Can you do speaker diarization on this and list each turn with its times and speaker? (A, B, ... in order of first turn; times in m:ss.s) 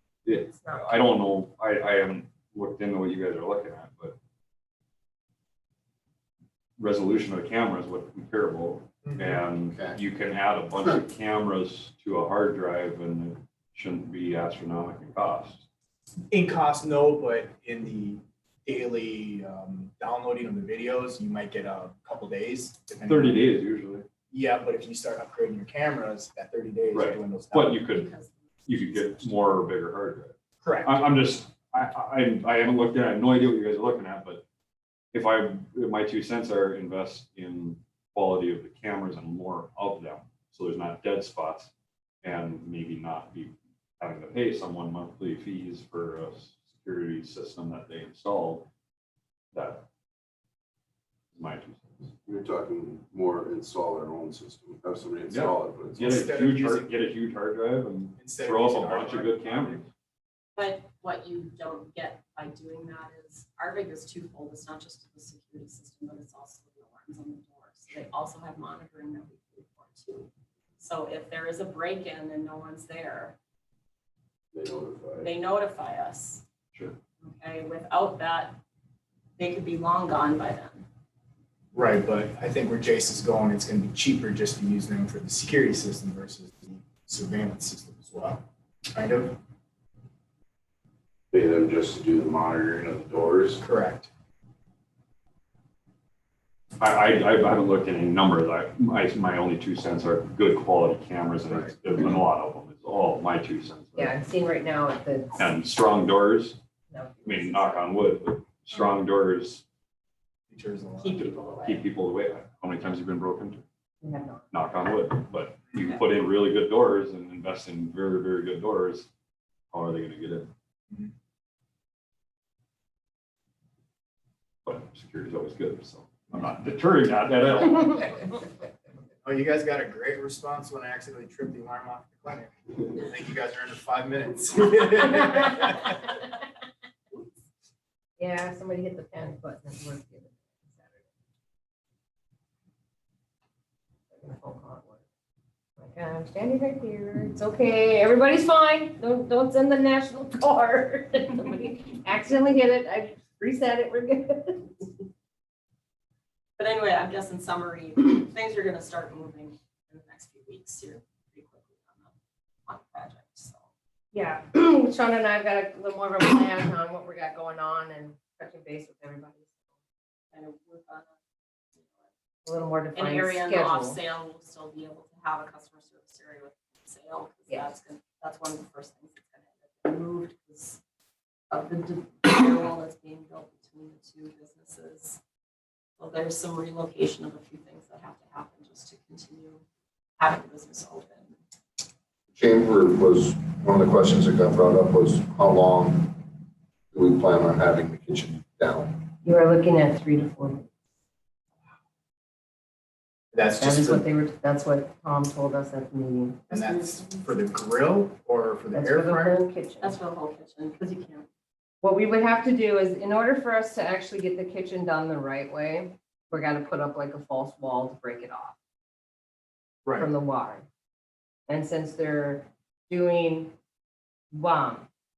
0:00.2-0:04.2 A
0:00.6-0:01.0 B
0:06.8-0:15.6 A
0:09.0-0:09.4 C
0:09.7-0:10.0 D
0:16.3-0:23.4 C
0:23.0-0:24.0 A
0:24.3-0:27.8 C
0:26.9-0:28.1 A
0:27.8-0:29.6 E
0:28.6-0:34.4 A
0:30.6-0:31.1 C
0:35.1-0:41.7 A
0:42.2-0:48.6 A
0:49.5-0:49.8 A
0:51.3-0:52.1 A
0:52.2-0:56.2 D
0:55.3-0:59.9 A
0:56.0-0:56.9 C
0:58.2-0:59.8 C
1:00.6-1:13.3 E
1:14.5-1:15.3 D
1:15.2-1:16.4 E
1:17.2-1:18.6 E
1:19.4-1:20.8 E
1:21.7-1:29.3 C
1:31.3-1:33.6 D
1:33.6-1:34.1 C
1:36.8-1:44.2 A
1:44.0-1:45.4 B
1:45.3-1:46.6 A
1:46.9-1:47.8 B
1:47.2-1:49.6 A
1:50.5-1:51.2 C
1:51.0-1:51.8 E
1:51.6-1:53.6 A
1:54.0-1:54.5 B
1:54.5-1:59.1 A
1:59.7-2:00.5 A
2:04.6-2:08.2 A
2:09.2-2:16.0 C
2:18.2-2:21.0 B
2:24.1-2:25.0 B
2:25.8-2:34.9 B
2:36.6-2:42.1 E
2:42.6-2:43.6 E
2:44.1-2:49.5 B
2:50.3-2:51.1 E
2:52.4-2:54.0 B
2:52.9-3:00.8 E
3:01.5-3:05.2 E
3:06.0-3:09.6 E
3:10.2-3:11.4 E
3:12.3-3:16.2 D
3:16.9-3:19.0 D
3:19.2-3:20.7 B
3:23.3-3:24.0 C
3:23.5-3:26.5 B
3:26.5-3:29.4 C
3:26.6-3:27.2 E
3:28.7-3:29.9 B
3:29.8-3:31.3 E
3:31.8-3:38.6 B
3:39.9-3:40.6 B
3:41.5-3:43.5 B
3:44.3-3:44.9 B